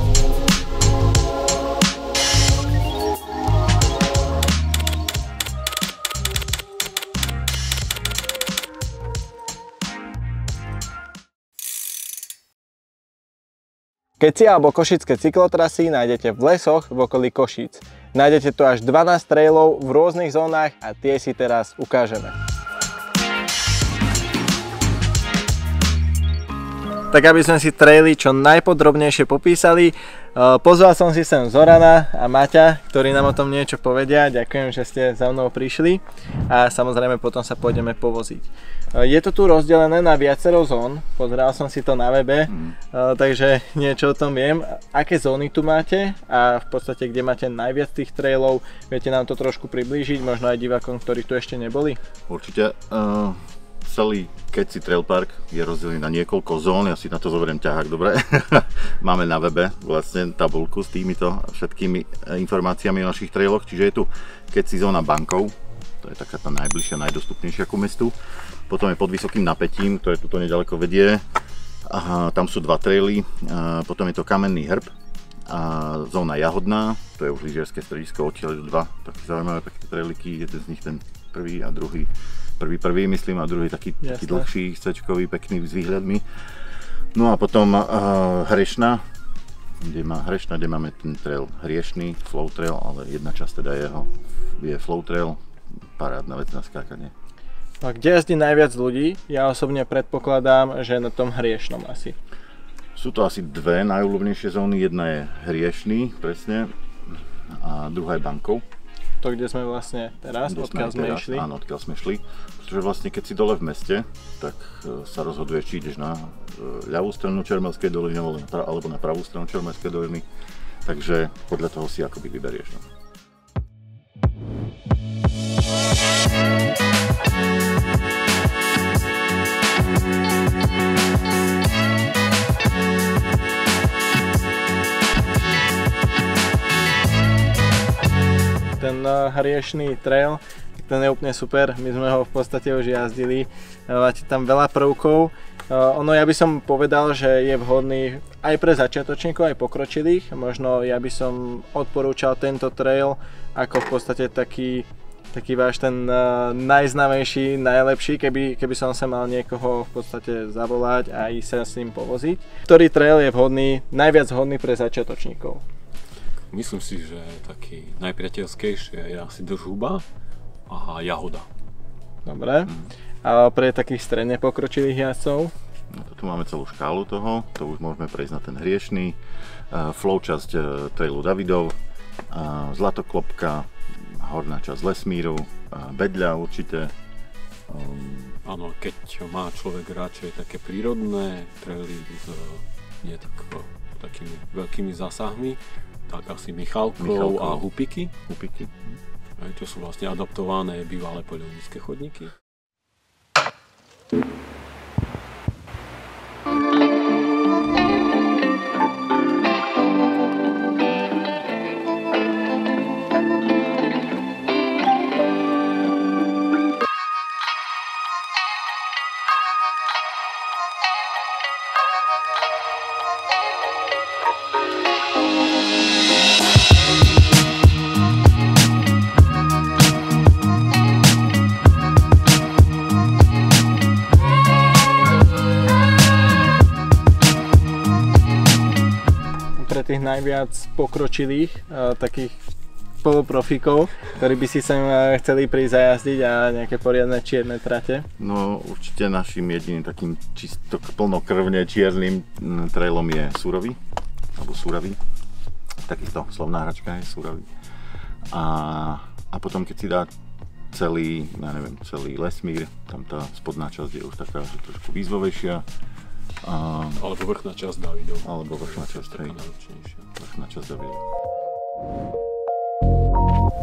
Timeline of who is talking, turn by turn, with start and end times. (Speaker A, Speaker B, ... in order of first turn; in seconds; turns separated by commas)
Speaker A: 14.2-22.4, Speaker A: 27.1-52.0, Speaker B: 42.5-42.8, Speaker B: 52.3-68.1, Speaker B: 68.7-71.2, Speaker B: 71.9-74.9, Speaker B: 75.5-86.2, Speaker A: 84.0-84.5, Speaker B: 87.1-89.0, Speaker B: 89.8-95.4, Speaker B: 96.0-97.1, Speaker A: 97.8-102.2, Speaker B: 103.0-108.6, Speaker A: 109.2-111.5, Speaker B: 110.5-120.3, Speaker B: 120.8-122.8, Speaker A: 138.8-165.6, Speaker C: 166.5-170.1, Speaker C: 170.7-171.5, Speaker A: 172.2-175.5, Speaker B: 175.9-179.2, Speaker B: 179.7-181.7, Speaker B: 182.3-186.9, Speaker B: 187.7-188.4, Speaker C: 188.4-198.1, Speaker B: 197.0-197.7, Speaker B: 198.2-199.0, Speaker C: 199.4-202.3, Speaker A: 239.6-242.4, Speaker A: 243.0-248.1, Speaker B: 248.2-253.8, Speaker B: 254.3-255.0, Speaker B: 255.9-257.4, Speaker B: 258.3-260.1, Speaker B: 260.7-265.6, Speaker B: 266.4-267.0, Speaker C: 267.0-270.1, Speaker B: 268.2-269.4, Speaker B: 270.1-271.0